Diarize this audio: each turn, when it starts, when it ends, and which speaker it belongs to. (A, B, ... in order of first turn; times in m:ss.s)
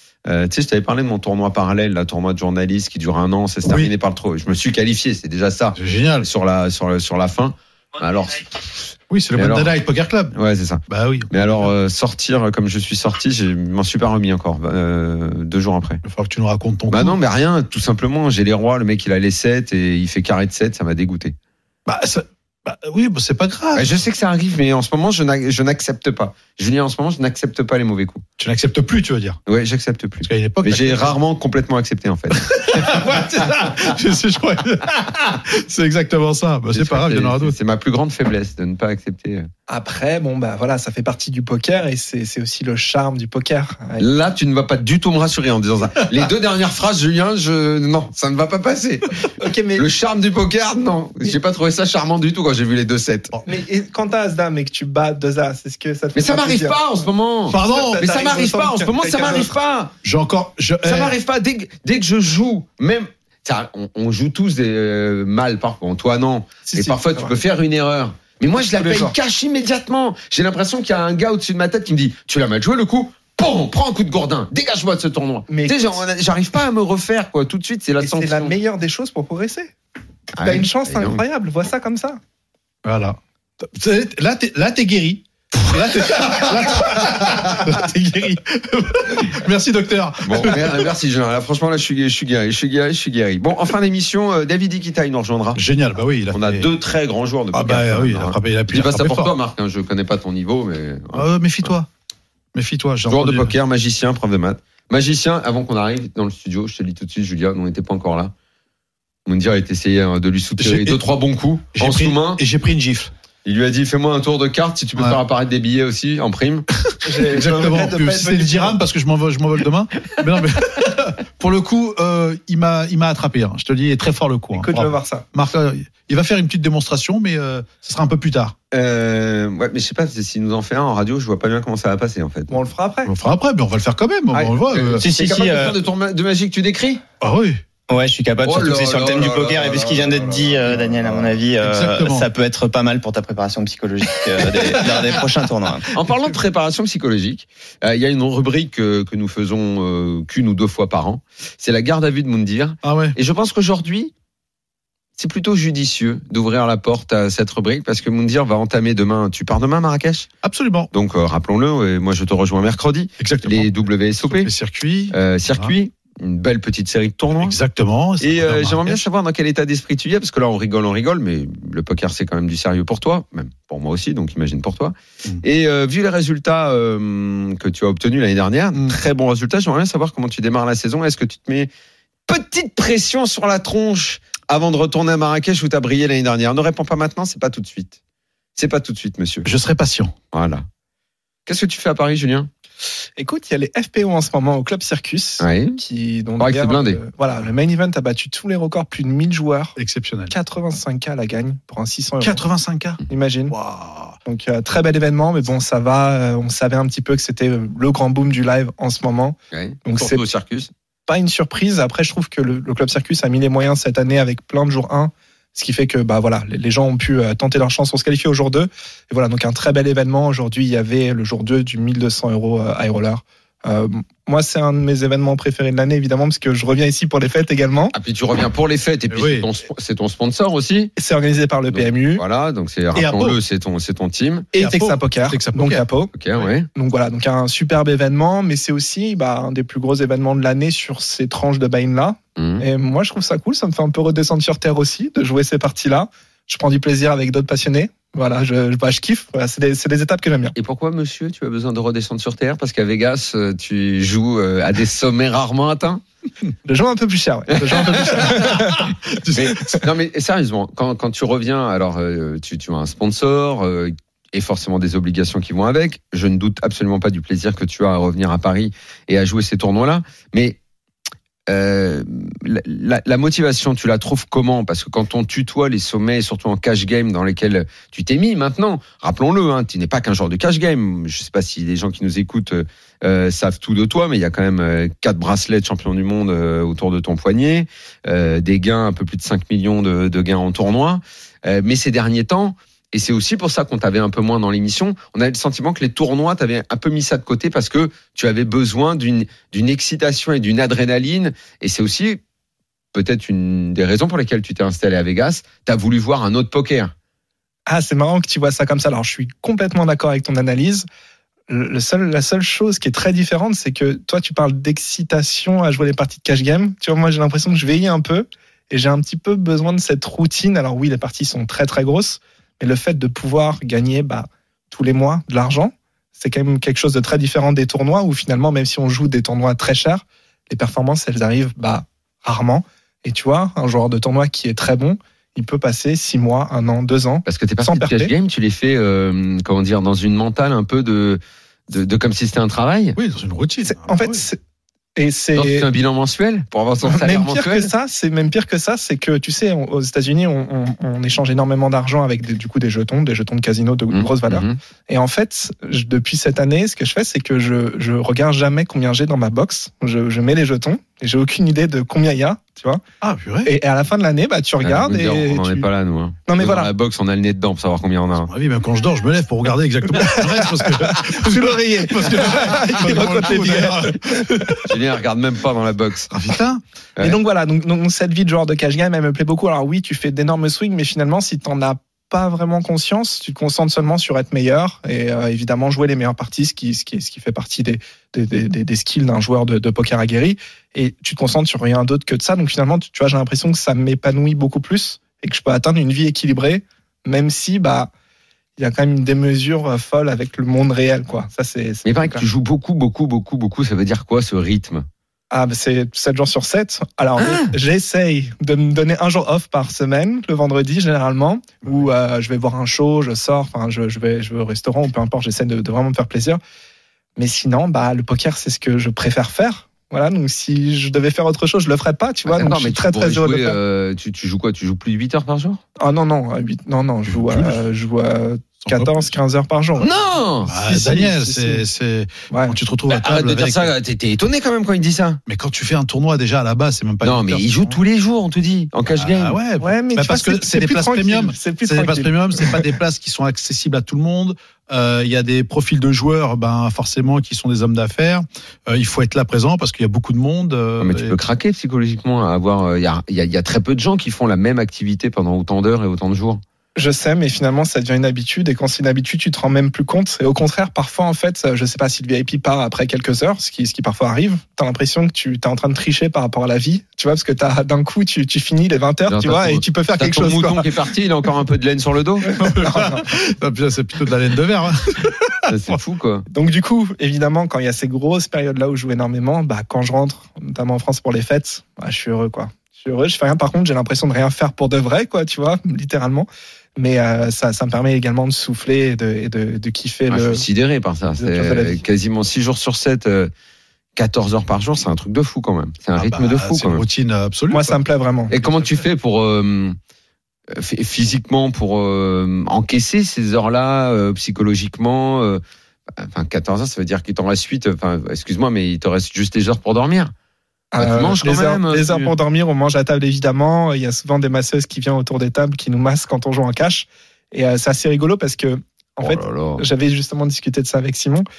0:00.3-0:09.8 A
0:03.7-0:03.9 B
0:05.8-0:06.3 B
0:09.1-0:10.3 B
0:10.3-0:16.0 A
0:10.9-0:11.7 B
0:16.0-0:17.2 B
0:16.9-0:21.4 A
0:21.9-0:23.9 B
0:23.7-0:28.2 A
0:28.4-0:29.4 B
0:29.5-0:33.8 A
0:30.2-0:31.2 B
0:32.5-0:37.6 B
0:36.7-0:39.5 A
0:39.7-0:44.0 C
0:44.0-0:53.3 A
0:49.4-0:49.9 C
0:53.5-0:56.8 C
0:56.2-0:59.9 A
0:57.5-0:58.0 B
0:57.7-0:59.5 C
1:00.0-1:01.2 B
1:00.8-1:18.5 A
1:06.7-1:07.4 C
1:08.6-1:09.2 C
1:15.5-1:15.9 C
1:18.0-1:19.7 C
1:20.3-1:21.2 A
1:20.4-1:22.2 C
1:22.8-1:30.9 B
1:26.8-1:27.7 A
1:30.2-1:35.6 A
1:35.6-1:36.6 B
1:36.3-1:41.7 A
1:37.5-1:39.3 B
1:41.2-1:41.9 B
1:42.5-1:43.5 B
1:43.1-1:48.3 A
1:49.3-1:52.4 A
1:50.6-1:51.0 B
1:51.8-1:53.1 B
1:53.4-1:56.7 A
1:56.9-2:08.6 B
1:57.0-1:58.8 C
2:04.5-2:05.2 C
2:08.7-2:12.6 A
2:12.5-2:13.1 C
2:13.1-2:15.0 B
2:14.3-2:17.0 A
2:15.0-2:15.8 D
2:17.2-2:17.6 B
2:17.9-2:25.9 D
2:18.4-2:20.3 A
2:20.0-2:22.3 B
2:24.4-2:25.2 B
2:25.9-2:34.1 A
2:32.8-2:33.2 B
2:35.2-2:40.3 A
2:40.4-2:40.9 B
2:40.9-2:44.5 A
2:43.2-2:45.8 B
2:45.1-2:47.6 A
2:47.4-2:49.1 B
2:48.2-3:01.7 A
3:02.3-3:08.0 A
3:08.6-3:09.5 A
3:09.4-3:10.1 B
3:10.3-3:10.6 A
3:11.5-3:12.5 A
3:13.2-3:19.8 C
3:15.4-3:15.8 A
3:16.4-3:17.0 A
3:19.8-3:20.3 B
3:20.3-3:22.4 C
3:22.2-3:24.2 B
3:23.1-3:23.6 C
3:24.2-3:30.2 C
3:29.5-3:30.7 A
3:31.1-3:48.0 C
3:47.9-3:50.9 A
3:49.1-3:49.5 B
3:51.0-3:52.2 C
3:51.7-3:54.5 A
3:53.0-3:53.4 B
3:54.5-3:56.1 C
3:54.6-3:55.8 B
3:56.1-3:56.7 A
3:56.7-4:10.6 C
4:02.4-4:02.6 A
4:10.6-4:16.0 A
4:16.6-4:18.9 C
4:17.6-4:18.6 A
4:18.8-4:19.8 B
4:19.3-4:30.6 A
4:31.5-5:02.2 A
5:02.9-5:06.9 A
5:07.7-5:10.8 C
5:11.5-5:38.1 C
5:37.3-5:43.0 A
5:43.0-5:44.2 B
5:43.6-5:44.4 C
5:45.0-5:45.7 C
5:45.4-5:47.7 A
5:46.8-6:02.8 C
5:53.9-5:54.6 A
6:03.0-6:03.5 B
6:03.4-6:05.7 C
6:04.6-6:08.3 A
6:06.3-6:06.7 C
6:08.2-6:14.7 B
6:10.0-6:14.7 C
6:14.7-6:16.1 A
6:16.1-6:16.6 B
6:17.0-6:37.9 C
6:38.6-6:42.3 C
6:41.8-6:44.9 A
6:45.3-6:56.4 C
6:47.2-6:47.5 A
6:57.2-7:03.6 C
7:02.3-7:05.6 A
7:05.8-7:09.9 C
7:07.1-7:07.6 B
7:08.6-7:09.1 B
7:09.8-7:10.6 A
7:10.4-7:13.7 B
7:10.7-7:11.6 C
7:12.3-7:12.6 C
7:12.9-7:15.2 A
7:15.3-7:17.8 B
7:17.0-7:19.4 A
7:19.0-7:31.2 B
7:19.6-7:22.7 C
7:30.8-7:36.4 A
7:36.8-7:50.7 C
7:49.1-7:52.3 A
7:52.4-7:53.0 C
7:52.4-7:55.7 B
7:55.5-7:56.3 A
7:56.3-8:10.4 C
8:10.1-8:13.3 A
8:11.2-8:11.8 C
8:14.0-8:16.8 A
8:16.0-8:17.8 B
8:17.5-8:18.3 C
8:18.3-8:18.8 B
8:18.3-8:19.8 A
8:20.5-8:25.4 A
8:26.0-8:30.1 A
8:30.7-8:41.2 C
8:30.8-8:32.1 A
8:39.0-8:39.6 A